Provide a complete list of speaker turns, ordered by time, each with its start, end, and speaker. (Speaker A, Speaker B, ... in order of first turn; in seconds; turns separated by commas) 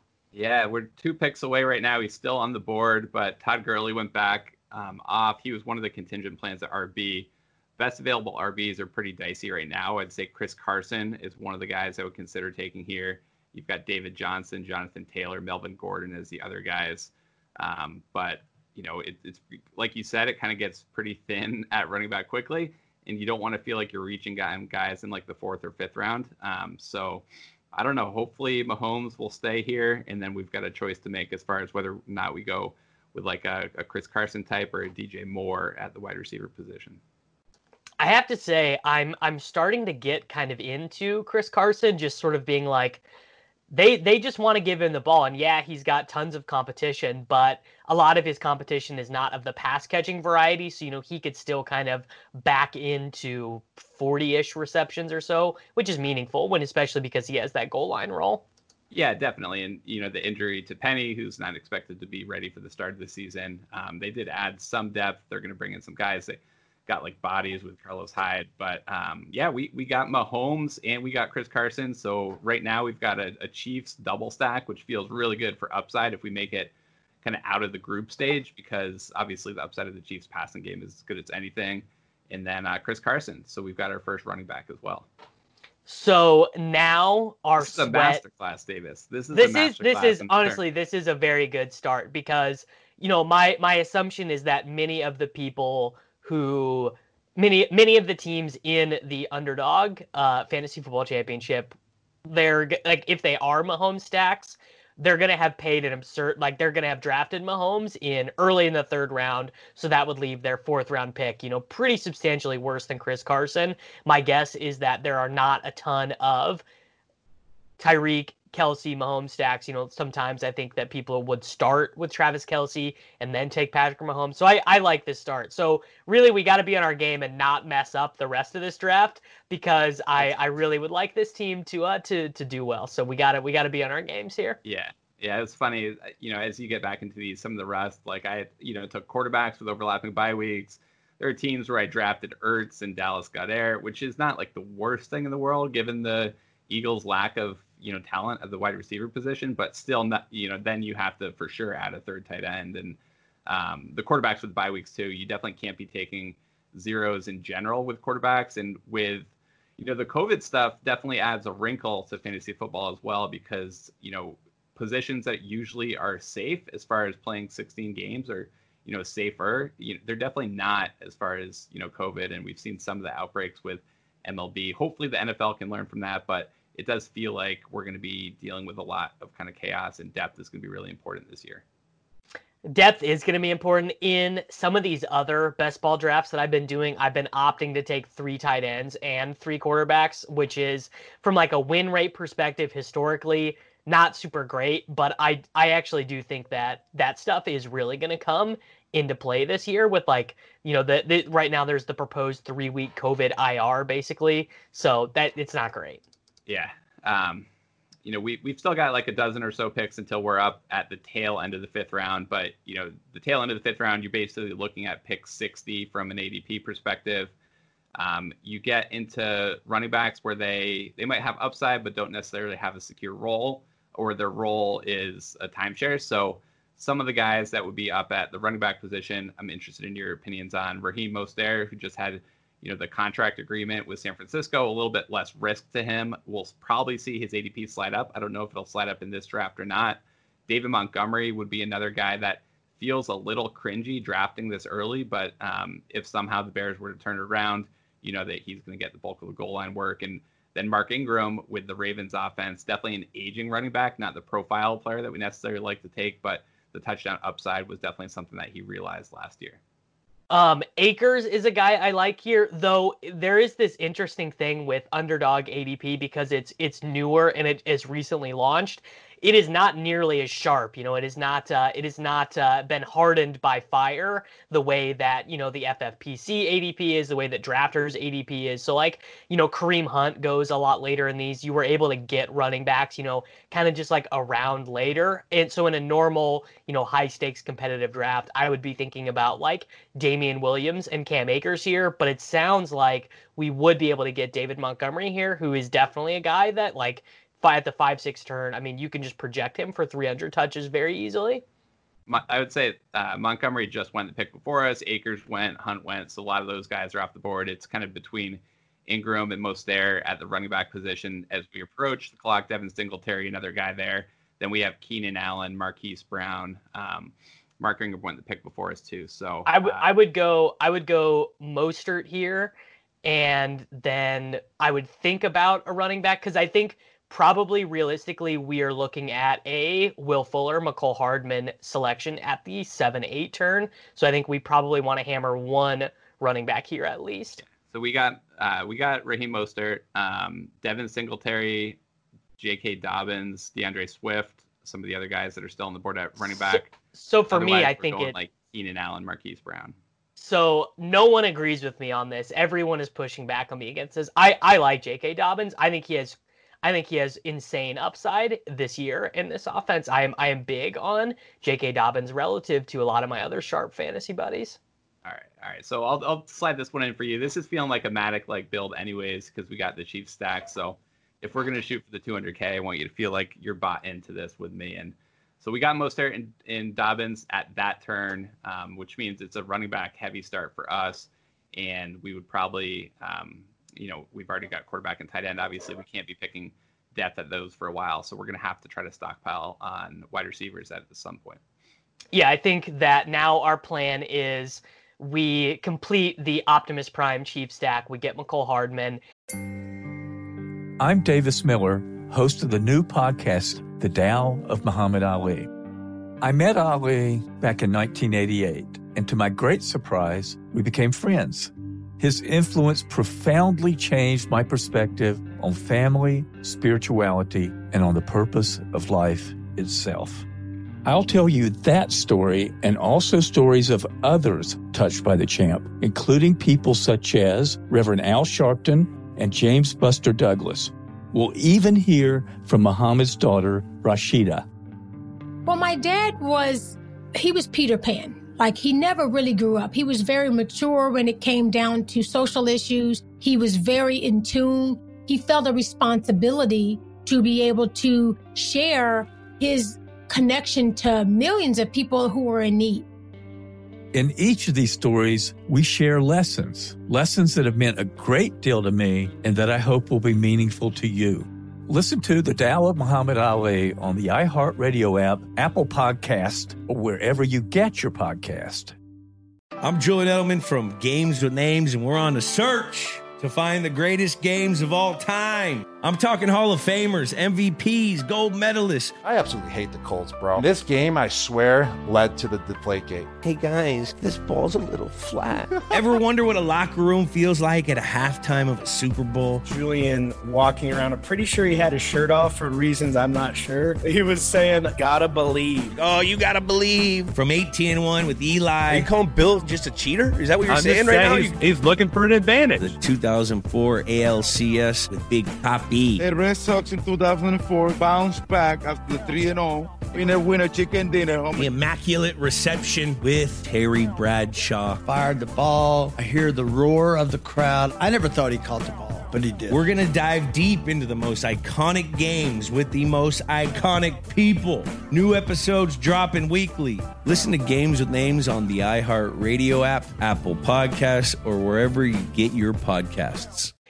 Speaker A: 0.3-37.0, Speaker B: 38.0-43.0, Speaker B: 43.7-58.4, Speaker A: 58.9-76.7, Speaker A: 77.2-85.1, Speaker B: 85.9-88.2, Speaker A: 87.6-90.6, Speaker B: 89.3-101.8, Speaker B: 102.3-116.6, Speaker B: 117.8-134.6, Speaker A: 134.7-181.6, Speaker B: 182.7-206.0, Speaker A: 206.5-207.5, Speaker A: 208.0-217.3, Speaker A: 218.0-259.6, Speaker B: 260.3-301.4, Speaker A: 302.1-319.9, Speaker B: 319.5-337.4, Speaker A: 337.4-341.8, Speaker A: 342.4-346.7, Speaker B: 346.2-348.2, Speaker A: 347.3-349.8, Speaker B: 350.2-364.6, Speaker A: 365.0-391.4, Speaker B: 392.1-399.0, Speaker C: 400.8-405.5, Speaker C: 406.2-420.3, Speaker C: 420.9-434.5, Speaker D: 435.5-452.9, Speaker C: 453.9-468.8, Speaker E: 469.6-478.9, Speaker F: 479.0-483.1, Speaker G: 483.2-485.6, Speaker E: 485.7-489.4, Speaker H: 489.4-495.8, Speaker E: 495.8-501.4, Speaker I: 500.5-502.8, Speaker E: 502.6-506.1, Speaker J: 506.0-511.5, Speaker E: 511.4-514.8, Speaker K: 514.8-519.6, Speaker E: 519.5-533.5